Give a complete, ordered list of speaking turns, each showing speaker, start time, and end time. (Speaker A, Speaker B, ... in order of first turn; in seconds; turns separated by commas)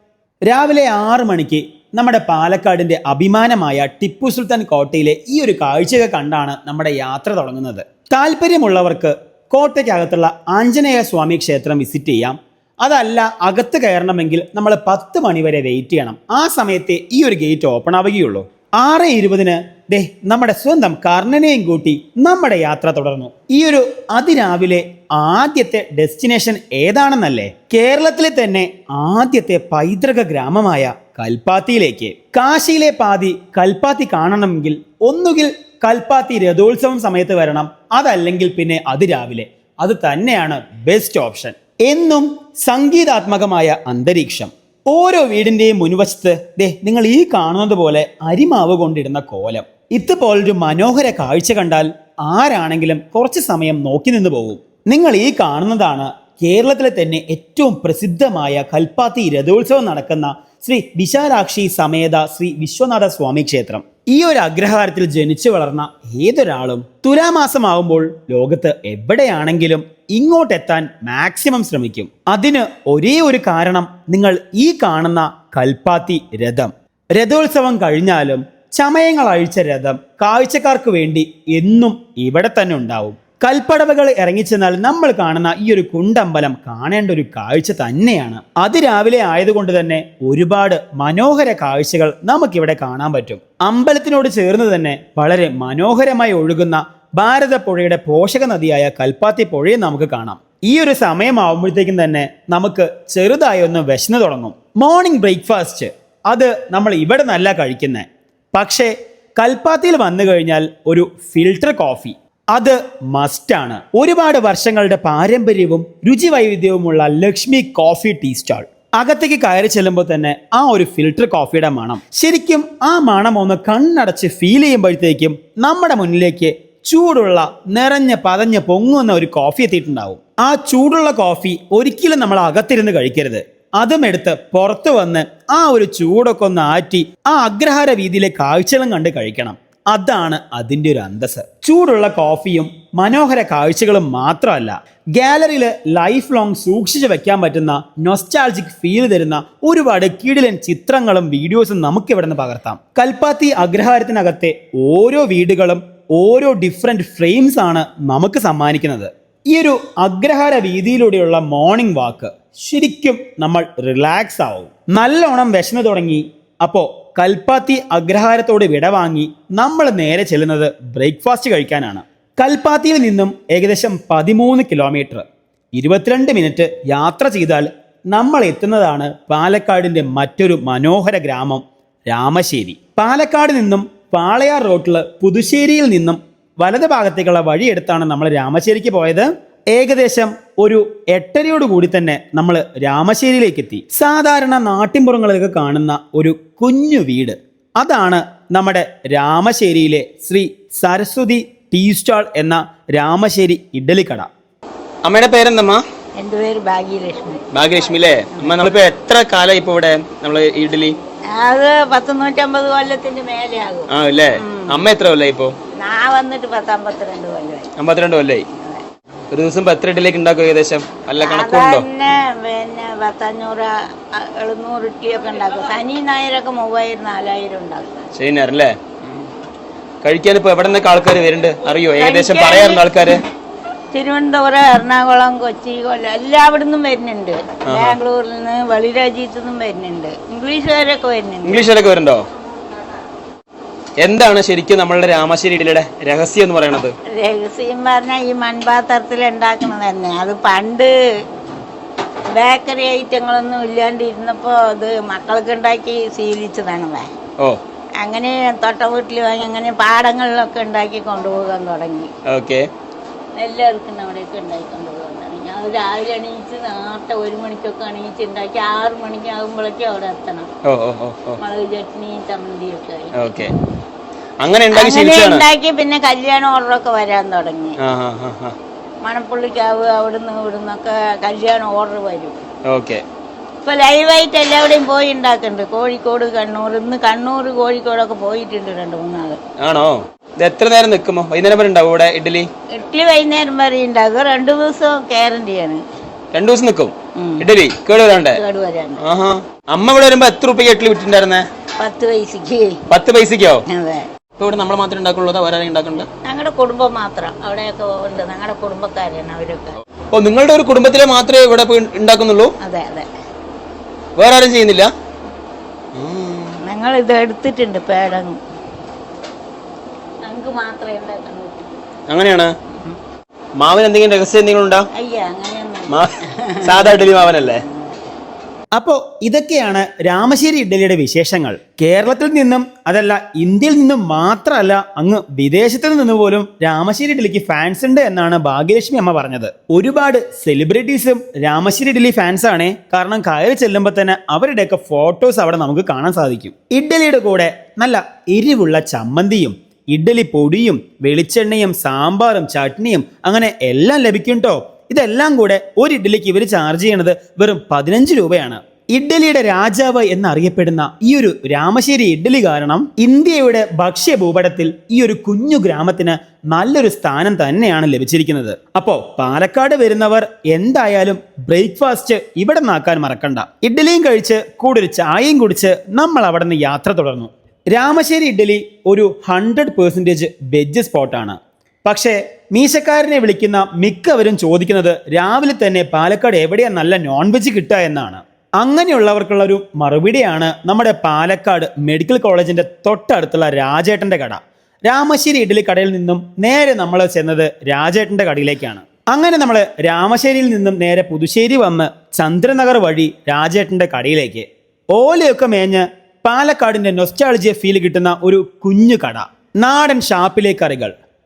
Speaker A: 0.4-204.3, Speaker B: 205.0-205.8, Speaker C: 206.2-207.4, Speaker B: 207.5-210.9, Speaker C: 211.3-214.8, Speaker B: 213.9-215.5, Speaker C: 215.8-217.7, Speaker B: 217.8-218.4, Speaker C: 218.6-218.8, Speaker B: 219.3-221.8, Speaker C: 221.2-228.1, Speaker B: 228.1-229.2, Speaker B: 230.0-233.2, Speaker C: 232.0-232.8, Speaker C: 233.9-241.6, Speaker B: 237.7-238.0, Speaker B: 241.4-242.2, Speaker B: 244.0-246.9, Speaker C: 247.1-250.9, Speaker C: 252.3-257.1, Speaker C: 258.0-262.1, Speaker B: 262.2-262.7, Speaker C: 263.4-270.5, Speaker B: 270.6-271.4, Speaker C: 271.4-273.5, Speaker B: 273.1-273.5, Speaker B: 274.4-275.4, Speaker C: 274.7-277.8, Speaker B: 277.8-278.6, Speaker C: 279.0-282.4, Speaker B: 282.6-283.0, Speaker C: 283.6-289.4, Speaker B: 289.6-292.5, Speaker C: 292.7-295.8, Speaker B: 296.3-298.4, Speaker C: 297.1-297.5, Speaker C: 298.2-299.0, Speaker B: 299.0-301.4, Speaker C: 301.8-302.8, Speaker B: 302.9-303.6, Speaker C: 303.7-304.1, Speaker B: 304.4-306.1, Speaker C: 306.2-309.8, Speaker B: 310.1-312.5, Speaker C: 312.6-313.1, Speaker B: 314.1-314.9, Speaker B: 315.9-316.6, Speaker C: 316.6-318.4, Speaker C: 320.2-321.7, Speaker B: 322.1-322.5, Speaker B: 323.6-324.9, Speaker C: 324.9-327.9, Speaker B: 325.9-327.6, Speaker A: 328.7-410.9